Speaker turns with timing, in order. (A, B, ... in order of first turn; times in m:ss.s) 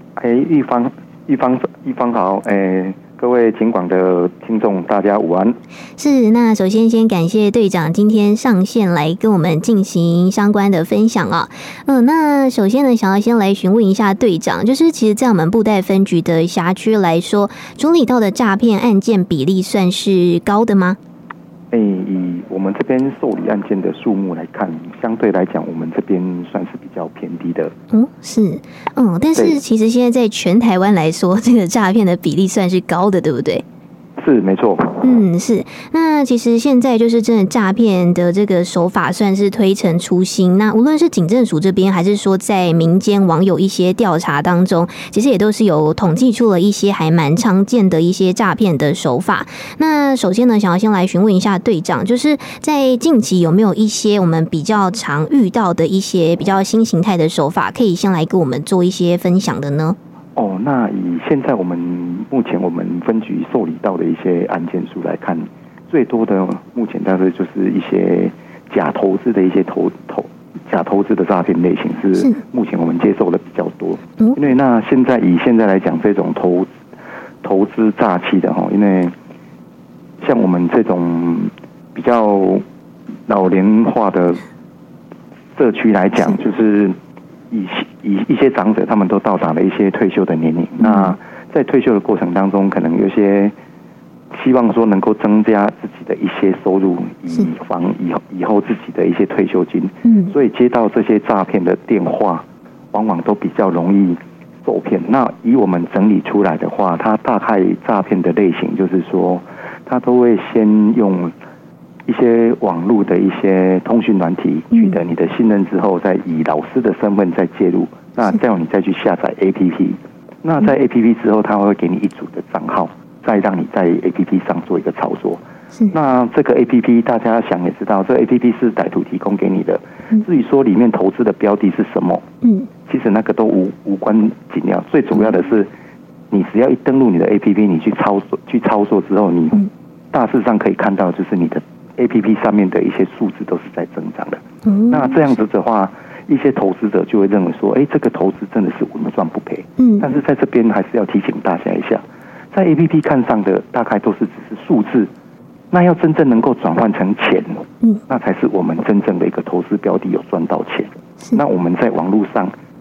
0:00.2-0:05.6 A
0:06.0-0:21.0 B
0:21.7-0:27.7 A
0:27.9-0:33.6 B
0:29.3-0:29.6 A
0:34.2-0:35.2 A
0:35.0-1:00.0 B
1:00.4-1:16.7 A
1:17.4-1:19.1 A
1:20.2-1:22.6 A
1:23.3-1:24.4 A
1:25.6-1:26.9 A
1:27.5-1:33.5 A
1:30.8-1:31.1 B
1:34.3-1:51.3 A
1:40.0-1:40.3 B
1:52.1-2:12.2 A
1:54.7-1:55.0 B
2:12.4-2:12.7 B
2:12.9-2:15.7 A
2:16.3-2:32.0 A
2:24.6-2:25.2 B
2:29.8-2:30.1 B
2:32.5-2:35.1 A
2:35.7-2:42.5 A